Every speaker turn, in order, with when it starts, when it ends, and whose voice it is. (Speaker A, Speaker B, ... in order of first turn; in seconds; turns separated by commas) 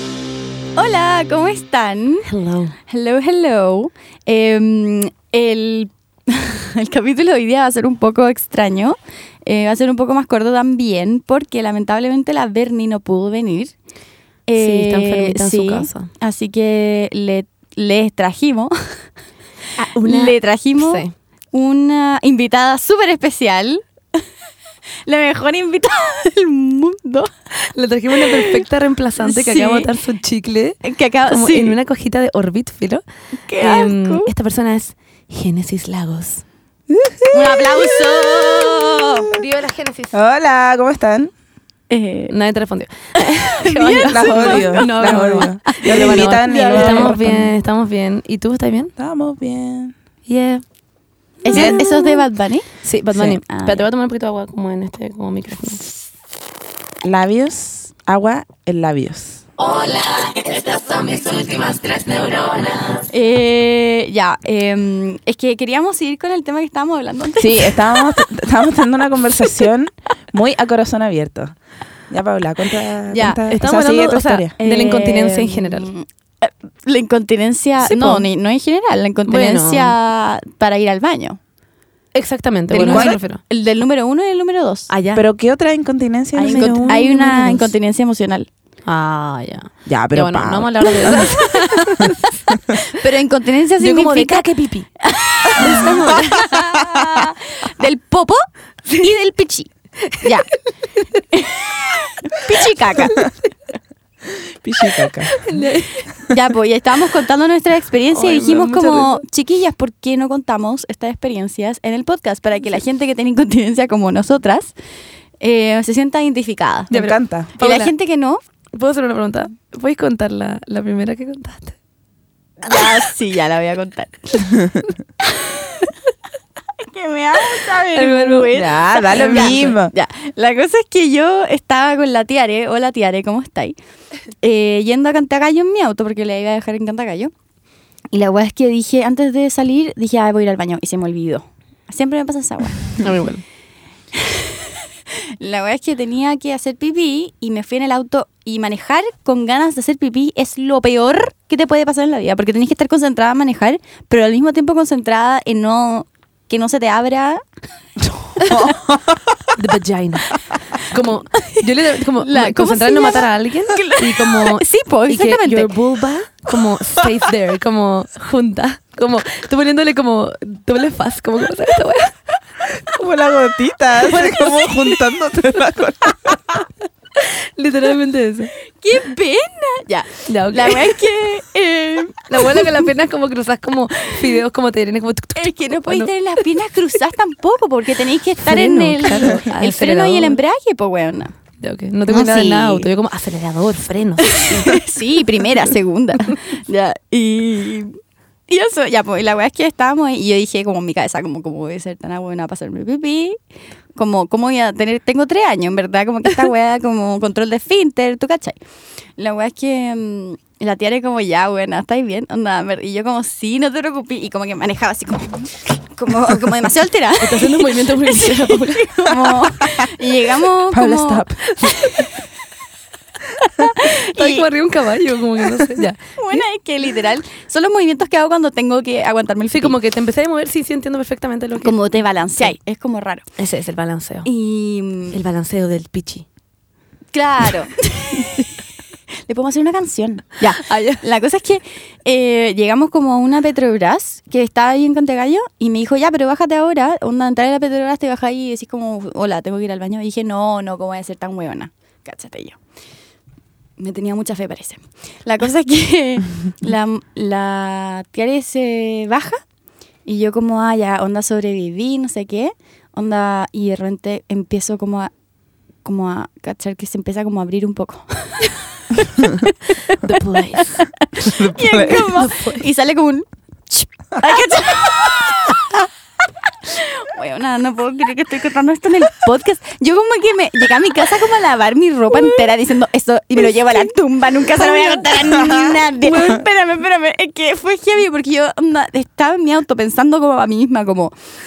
Speaker A: 0.8-2.3, Speaker B: 2.2-2.8, Speaker A: 2.9-13.7, Speaker A: 14.5-18.8, Speaker B: 14.6-16.1, Speaker B: 19.8-21.1, Speaker A: 20.0-24.2, Speaker A: 25.1-27.3, Speaker B: 27.6-33.0, Speaker A: 28.2-28.6, Speaker A: 29.2-29.9, Speaker A: 30.8-31.8, Speaker A: 33.5-34.3, Speaker B: 33.6-36.4, Speaker C: 36.9-39.2, Speaker A: 37.3-39.3, Speaker B: 39.3-40.2, Speaker C: 40.1-41.3, Speaker A: 41.9-42.3, Speaker B: 42.3-48.9, Speaker A: 43.2-47.4, Speaker C: 43.7-47.5, Speaker C: 49.0-49.9, Speaker B: 50.3-50.6, Speaker A: 51.4-53.8, Speaker C: 51.5-51.8, Speaker B: 51.5-52.2, Speaker B: 52.8-55.8, Speaker C: 57.0-59.5, Speaker B: 60.8-63.0, Speaker A: 63.1-68.2, Speaker C: 67.4-71.6, Speaker C: 72.1-74.5, Speaker A: 73.1-73.4, Speaker B: 73.5-75.9, Speaker A: 74.6-81.4, Speaker B: 77.8-78.3, Speaker B: 79.3-80.0, Speaker B: 82.1-83.4, Speaker A: 82.7-84.9, Speaker C: 82.8-83.2, Speaker B: 84.9-85.2, Speaker C: 85.1-87.0, Speaker B: 86.4-87.7, Speaker A: 86.4-88.5, Speaker B: 88.9-92.4, Speaker C: 89.9-91.4, Speaker C: 92.0-92.8, Speaker A: 92.8-94.5, Speaker B: 93.8-94.9, Speaker A: 95.0-100.5, Speaker B: 95.5-97.0, Speaker A: 101.3-103.3, Speaker B: 103.0-103.3, Speaker C: 104.3-105.4, Speaker B: 105.3-106.1, Speaker A: 106.3-114.7, Speaker B: 108.1-109.2, Speaker A: 115.4-116.9, Speaker C: 116.9-117.5, Speaker B: 116.9-117.9, Speaker A: 117.6-118.4, Speaker B: 118.7-121.8, Speaker A: 122.6-124.5, Speaker A: 125.2-125.9, Speaker A: 126.8-133.8, Speaker B: 127.9-128.5, Speaker C: 128.5-129.9, Speaker A: 134.4-137.3, Speaker A: 138.1-143.0, Speaker B: 143.0-143.4, Speaker A: 144.1-144.8, Speaker A: 145.4-157.4, Speaker C: 158.3-159.5, Speaker A: 158.4-158.7, Speaker B: 159.5-172.2, Speaker A: 161.4-161.6, Speaker A: 162.2-165.7, Speaker C: 172.8-176.6, Speaker A: 174.2-174.6, Speaker B: 177.2-178.5, Speaker A: 178.7-182.8, Speaker B: 180.3-180.9, Speaker B: 182.3-186.4, Speaker A: 185.3-191.3, Speaker B: 188.4-190.4, Speaker B: 191.6-194.8, Speaker A: 192.1-192.9, Speaker A: 194.2-198.0, Speaker A: 198.5-203.4, Speaker A: 203.9-208.6, Speaker A: 209.2-222.1, Speaker B: 217.2-219.0, Speaker C: 220.7-221.4, Speaker B: 221.5-222.0, Speaker A: 223.4-224.5, Speaker B: 224.0-226.4, Speaker A: 226.2-229.8, Speaker B: 229.5-231.7, Speaker A: 231.6-233.2, Speaker B: 233.4-234.3, Speaker A: 234.2-235.2, Speaker B: 235.1-236.2, Speaker A: 237.1-238.5, Speaker A: 239.2-252.6, Speaker B: 240.5-241.0, Speaker A: 253.8-259.4, Speaker A: 260.1-265.1, Speaker A: 265.8-275.8, Speaker B: 270.0-270.8, Speaker C: 271.2-272.1, Speaker B: 272.1-272.6, Speaker A: 276.6-291.1, Speaker C: 285.2-285.8